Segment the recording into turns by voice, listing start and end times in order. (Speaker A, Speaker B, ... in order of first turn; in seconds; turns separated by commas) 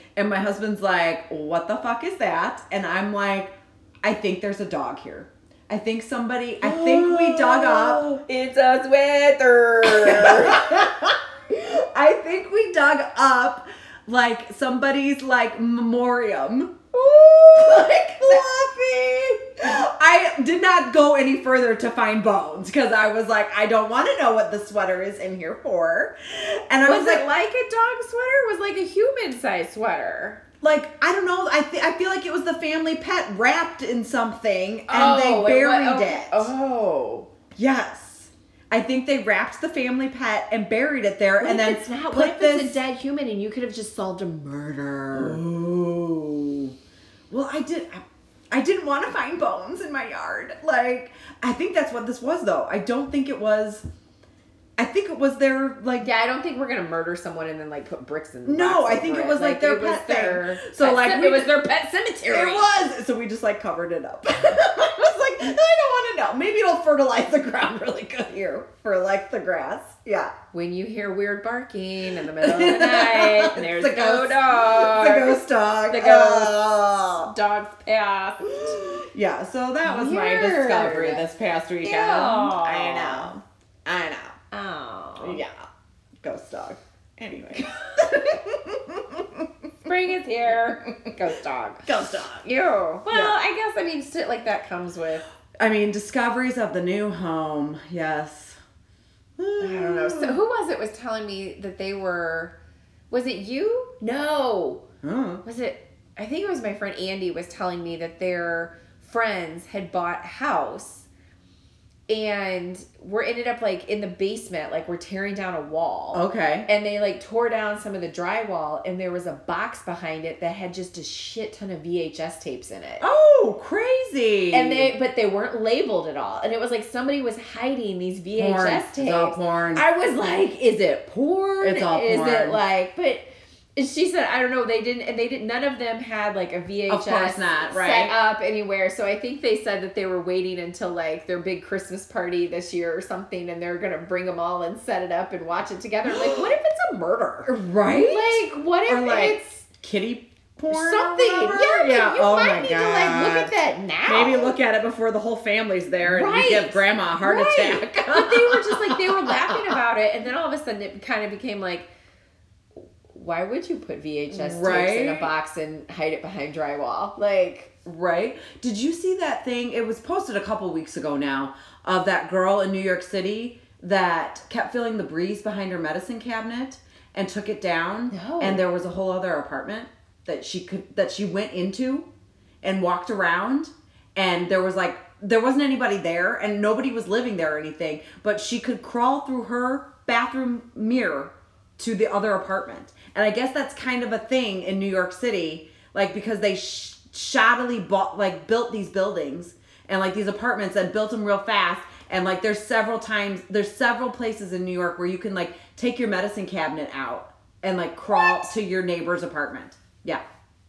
Speaker A: 0.1-8.2, Speaker B: 6.6-10.8, Speaker A: 9.8-16.9, Speaker B: 16.9-19.6, Speaker A: 17.5-18.5, Speaker A: 19.6-27.3, Speaker B: 26.8-30.4, Speaker A: 30.6-36.5, Speaker B: 34.9-37.3, Speaker A: 37.5-42.8, Speaker B: 41.4-45.4, Speaker A: 45.1-46.7, Speaker A: 47.3-53.8, Speaker A: 54.8-56.1, Speaker B: 56.0-62.7, Speaker A: 58.5-61.6, Speaker A: 62.3-70.3, Speaker B: 70.5-76.6, Speaker A: 72.4-77.3, Speaker B: 77.2-78.8, Speaker A: 78.4-84.3, Speaker B: 79.8-81.3, Speaker B: 81.8-83.3, Speaker B: 84.5-85.4, Speaker A: 85.2-85.6, Speaker A: 86.2-89.5, Speaker B: 89.8-91.8, Speaker A: 91.8-92.4, Speaker B: 92.4-95.2, Speaker A: 93.1-93.4, Speaker A: 95.6-98.6, Speaker A: 99.4-100.4, Speaker B: 99.6-102.5, Speaker B: 103.1-104.8, Speaker A: 105.0-105.4, Speaker B: 105.4-111.1, Speaker B: 112.1-123.0, Speaker A: 116.1-116.7, Speaker A: 123.0-124.9, Speaker B: 124.5-149.5, Speaker A: 128.3-129.8, Speaker A: 131.4-132.6, Speaker A: 136.9-138.1, Speaker A: 146.1-146.5, Speaker A: 147.5-153.5, Speaker B: 150.7-154.5, Speaker A: 154.0-159.8, Speaker B: 156.0-161.9, Speaker B: 163.1-167.7, Speaker A: 164.3-165.3, Speaker A: 167.8-182.1, Speaker B: 178.1-178.6, Speaker A: 182.6-210.2, Speaker B: 208.1-208.5